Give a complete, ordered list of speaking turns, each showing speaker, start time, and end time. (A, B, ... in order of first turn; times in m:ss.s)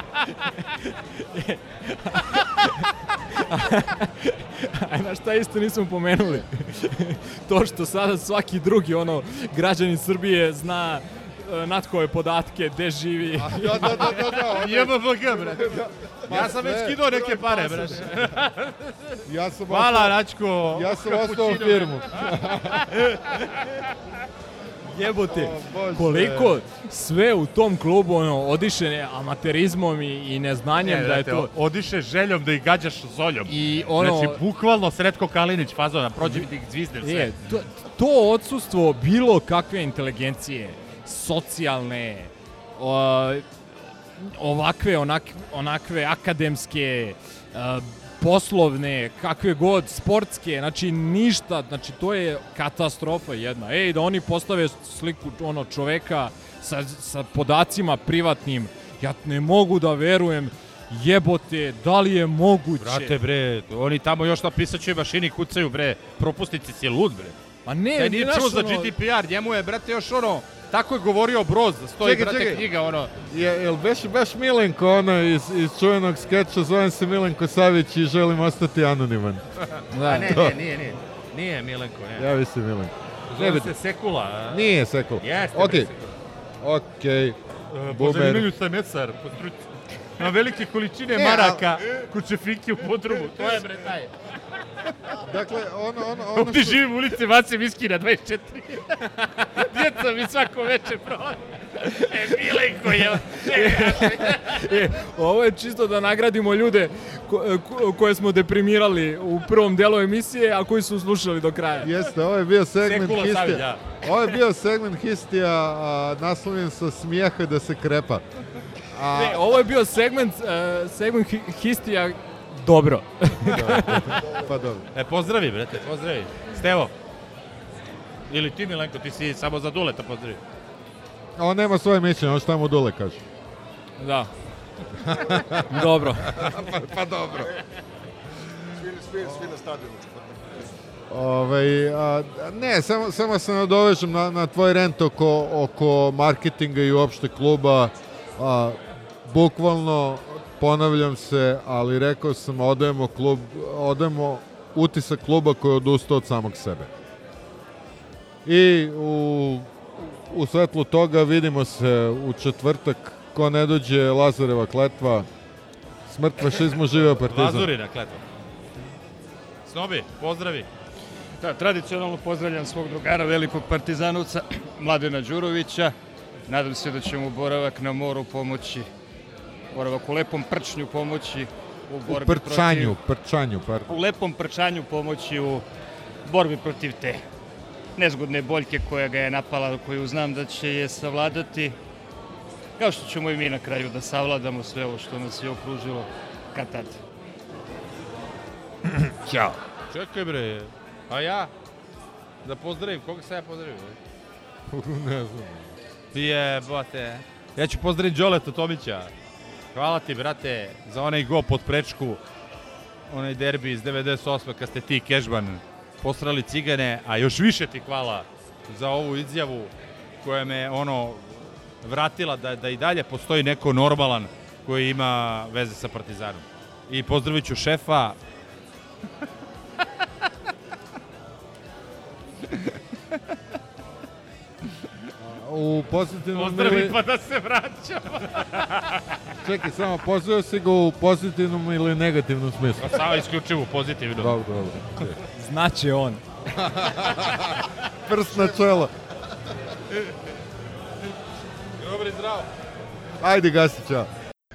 0:00.4-0:14.0 A
0:13.4-0:18.3 B
0:14.0-0:23.7 C
0:19.2-0:22.9 B
0:25.0-0:25.5 C
0:25.2-0:26.6 B
0:25.9-0:31.5 A
0:30.8-0:37.4 C
0:33.5-0:34.4 A
0:37.0-0:43.4 A
0:44.2-1:03.2 A
1:02.8-1:07.4 C
1:07.6-1:08.9 A
1:08.0-1:13.1 C
1:12.0-1:12.6 B
1:13.3-1:19.4 B
1:19.9-1:20.4 A
1:20.0-1:22.3 C
1:20.1-1:20.6 B
1:22.2-1:23.7 B
1:23.3-1:24.7 C
1:24.5-1:25.9 B
1:25.2-1:26.1 C
1:26.6-1:28.5 B
1:27.7-1:29.6 C
1:30.2-1:34.1 C
1:31.1-1:31.8 B
1:35.2-1:36.8 B
1:36.3-1:44.6 C
1:43.3-1:51.9 A
1:51.8-1:58.2 B
1:52.8-1:53.8 C
1:58.9-1:59.4 B
1:59.1-2:04.1 A
2:03.5-2:04.9 B
2:04.9-2:06.9 C
2:08.3-2:10.4 C
2:11.4-2:13.2 B
2:14.0-2:14.3 A
2:15.0-2:17.5 B
2:15.7-2:16.3 A
2:18.7-2:20.7 D
2:21.1-2:36.9 B
2:38.4-2:45.3 B
2:46.0-2:47.7 B
2:46.9-2:48.2 C
2:49.6-2:50.7 C
2:51.4-2:55.9 E
2:56.5-2:58.9 E
2:59.7-3:03.0 E
3:02.1-3:03.9 B
3:03.9-3:05.6 E
3:06.2-3:07.2 E
3:08.0-3:11.8 E
3:12.8-3:17.0 E
3:19.3-3:19.5 E
3:19.9-3:21.5 C
3:22.4-3:24.0 C
3:24.7-3:25.7 B
3:26.1-3:29.1 C
3:29.7-3:32.2 C
3:33.1-3:39.7 C
3:40.2-3:48.2 C
3:55.2-3:57.0 B
3:56.3-3:59.2 C
3:59.4-4:03.2 B
4:02.8-4:04.4 C
4:04.2-4:05.2 B
4:05.3-4:06.2 A
4:06.6-4:08.9 B
4:11.8-4:12.5 C
4:13.2-4:14.1 B